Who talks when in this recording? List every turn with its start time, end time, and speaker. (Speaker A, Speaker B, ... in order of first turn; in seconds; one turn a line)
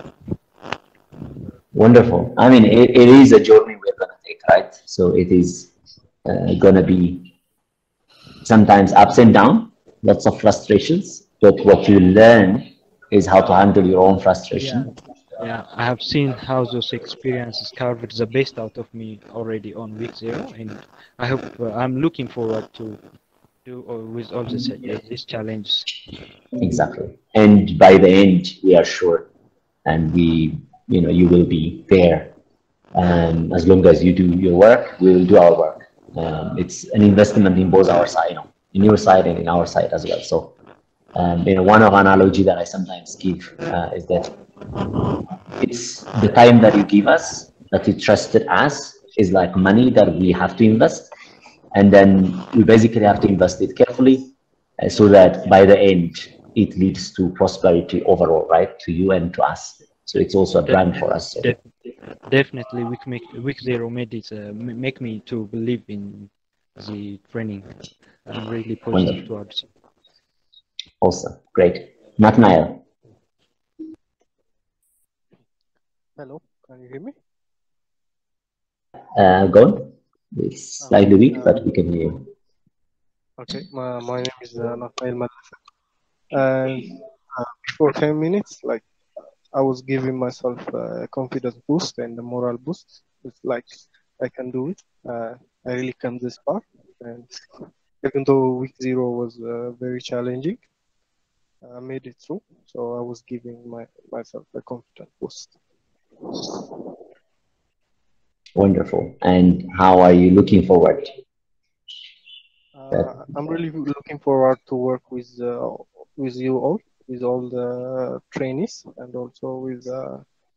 Speaker A: 1.7-5.7
Speaker A: 6.2-7.3
Speaker A: 8.4-14.9
Speaker B: 15.4-23.0
Speaker B: 23.6-25.9
Speaker A: 26.6-29.3
Speaker A: 29.8-32.3
Speaker A: 32.9-40.5
Speaker A: 41.1-44.3
Speaker A: 45.6-51.1
Speaker A: 51.7-61.5
Speaker B: 60.6-61.7
Speaker B: 62.2-67.7
Speaker B: 68.2-69.7
Speaker A: 68.9-69.2
Speaker A: 71.0-72.8
Speaker C: 76.2-77.1
Speaker A: 79.2-82.2
Speaker C: 80.8-81.6
Speaker C: 83.4-85.6
Speaker C: 86.3-88.8
Speaker C: 89.5-97.4
Speaker C: 98.0-100.6
Speaker C: 101.6-105.5
Speaker A: 108.5-111.1
Speaker C: 112.7-120.2